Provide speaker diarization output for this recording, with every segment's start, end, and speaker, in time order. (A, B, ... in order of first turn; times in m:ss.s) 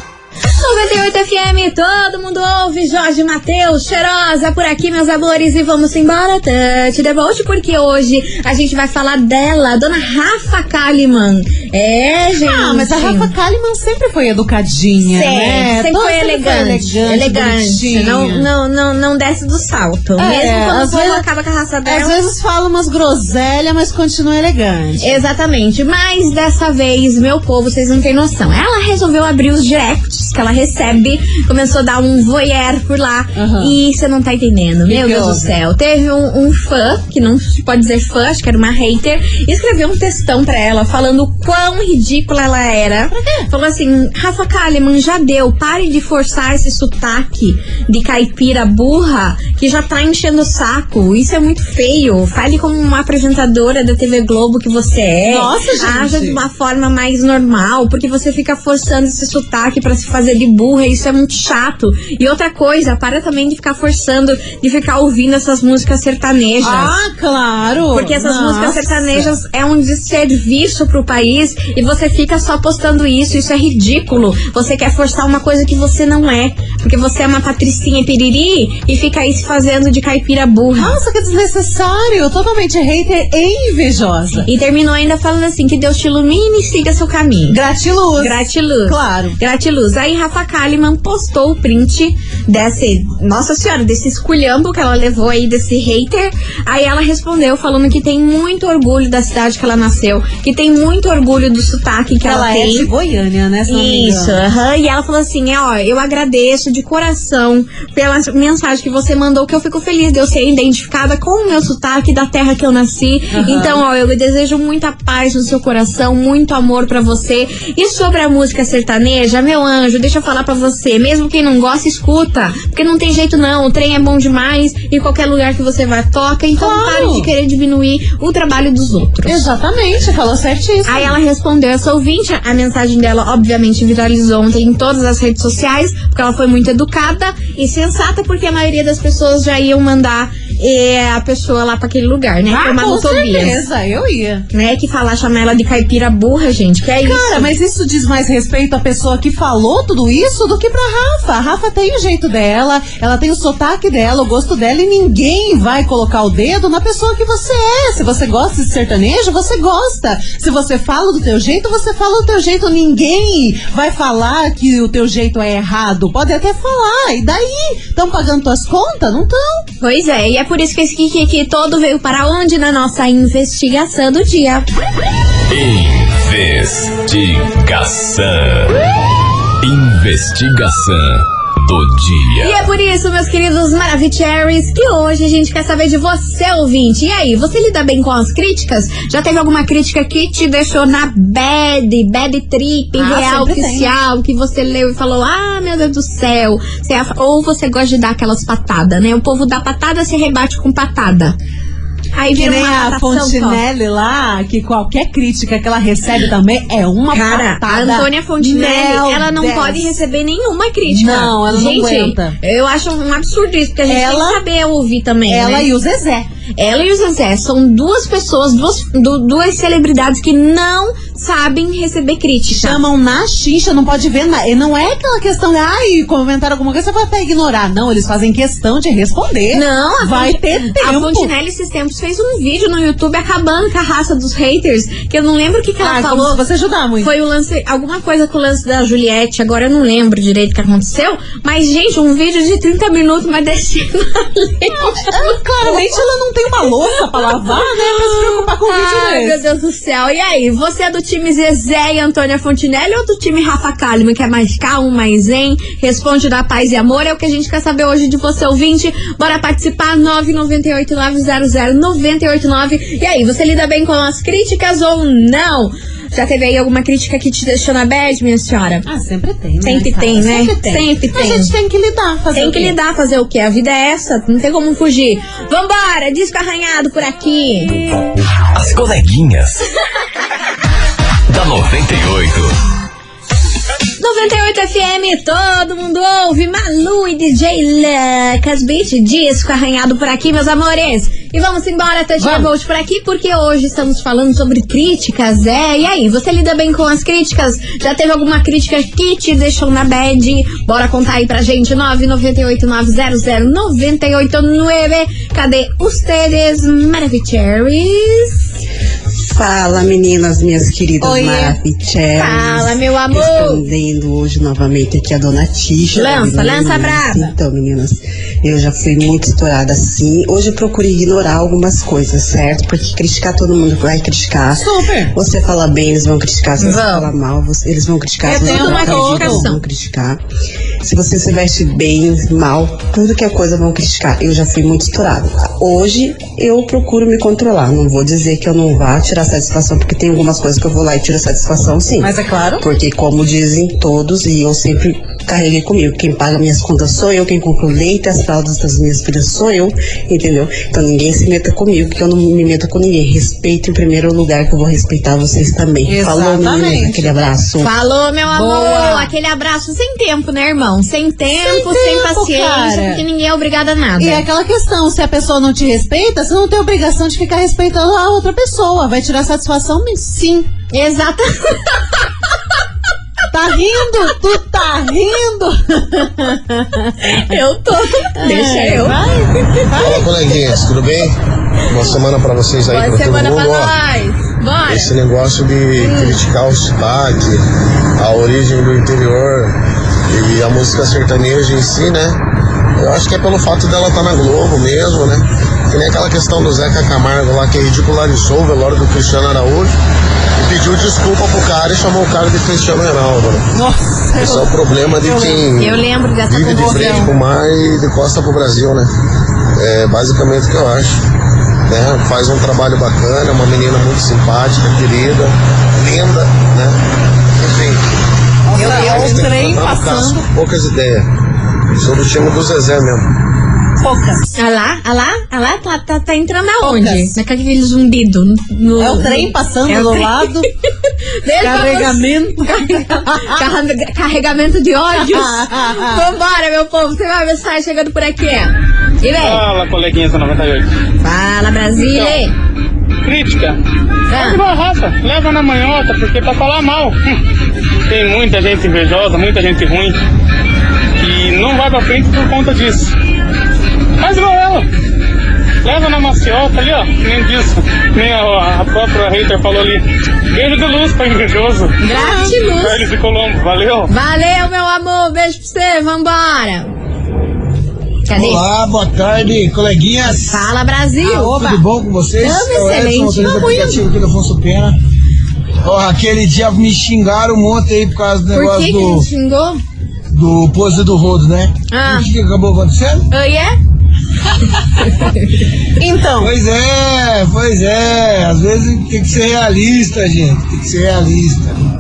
0:00.6-0:13.3 A
0:12.4-0:18.5 B
0:15.0-0:22.3 A
0:20.2-0:21.2 B
0:21.9-0:25.2 B
0:25.0-1:07.0 A
0:33.4-0:33.8 B
0:34.9-0:35.6 B
0:43.1-0:43.5 B
0:55.2-0:56.4 B
1:06.6-1:09.3 B
1:07.9-1:21.0 A
1:20.8-1:24.5 B
1:24.5-1:27.6 A
1:27.5-1:29.4 B
1:28.2-1:42.9 A
1:42.2-1:44.4 B
1:43.7-2:09.5 A
1:53.3-1:53.8 B
2:06.6-2:07.3 B
2:09.3-2:11.1 B
2:10.9-2:23.6 A
2:22.5-2:24.5 B
2:24.5-2:27.5 A
2:27.0-2:49.6 B
2:49.8-2:54.7 A
2:55.5-2:58.8 C
2:59.6-3:02.6 C
3:02.4-3:21.4 A
3:13.0-3:13.9 B
3:22.2-3:23.6 A
3:22.4-3:29.9 B
3:27.1-3:35.7 A
3:30.9-3:32.4 B
3:33.9-3:34.4 B
3:35.3-3:36.3 B
3:36.6-3:42.8 A
3:42.5-3:51.3 B
3:49.5-3:56.4 A
3:55.8-3:57.1 B
3:57.0-4:05.9 A
4:05.0-4:09.4 B
4:07.3-4:28.9 A
4:28.9-4:32.8 B
4:29.6-4:31.5 A
4:32.3-4:37.8 A
4:38.4-4:39.6 C
4:41.3-4:42.5 C
4:44.0-5:08.4 A
4:52.2-4:52.5 B
5:09.2-5:30.2 D
5:11.0-5:11.6 B
5:12.2-5:13.6 A
5:15.9-5:17.3 A
5:24.6-5:25.1 B
5:26.6-5:27.1 A
5:28.2-5:29.4 B
5:28.3-5:29.6 A
5:30.8-5:57.7 D
5:42.0-5:42.6 B
5:55.9-5:57.1 B
5:57.6-6:04.2 A
5:58.3-5:59.1 B
6:01.4-6:03.0 B
6:04.0-6:10.5 B
6:10.7-6:11.8 A
6:13.3-6:17.3 B
6:17.0-6:19.7 A
6:18.0-6:20.4 B
6:19.8-6:23.7 E
6:22.7-6:25.0 A
6:24.7-6:27.4 E
6:25.8-6:26.2 A
6:28.0-6:29.6 E
6:30.1-6:32.2 E
6:32.8-6:39.7 E
6:40.4-6:43.5 E
6:43.5-6:45.5 B
6:44.2-6:48.9 E
6:45.6-6:47.1 A
6:46.5-6:47.1 B
6:49.6-6:51.0 E
6:51.7-6:56.8 E
6:57.4-6:57.8 E
6:58.5-7:00.3 B
6:58.5-7:01.1 E
6:58.6-6:59.3 A
7:01.8-7:03.1 E
7:03.8-7:04.3 B
7:04.4-7:10.3 A
7:06.6-7:07.2 B
7:08.8-7:10.5 B
7:11.2-7:19.4 A
7:11.4-7:13.5 B
7:15.0-7:16.1 B
7:19.2-7:20.7 F
7:21.0-7:22.3 A
7:21.8-7:22.2 F
7:23.0-7:23.6 F
7:24.1-7:24.4 A
7:24.1-7:27.1 F
7:27.9-7:30.0 F
7:31.0-7:32.9 F
7:34.0-7:34.7 F
7:35.6-7:41.8 F
7:41.8-7:42.9 A
7:41.8-7:42.4 B
7:42.5-7:43.9 F
7:43.9-7:46.7 A
7:48.1-7:48.4 A
7:48.1-7:50.5 G
7:50.3-7:51.4 A
7:51.0-7:51.6 B
7:51.1-7:54.8 G
7:52.2-7:53.5 A
7:52.2-7:53.8 B
7:55.6-7:59.1 G
7:58.3-7:59.6 A
8:00.1-8:03.1 G
8:01.7-8:02.1 A
8:03.1-8:03.5 A
8:04.8-8:05.3 A
8:05.8-8:06.4 B
8:06.2-8:11.6 G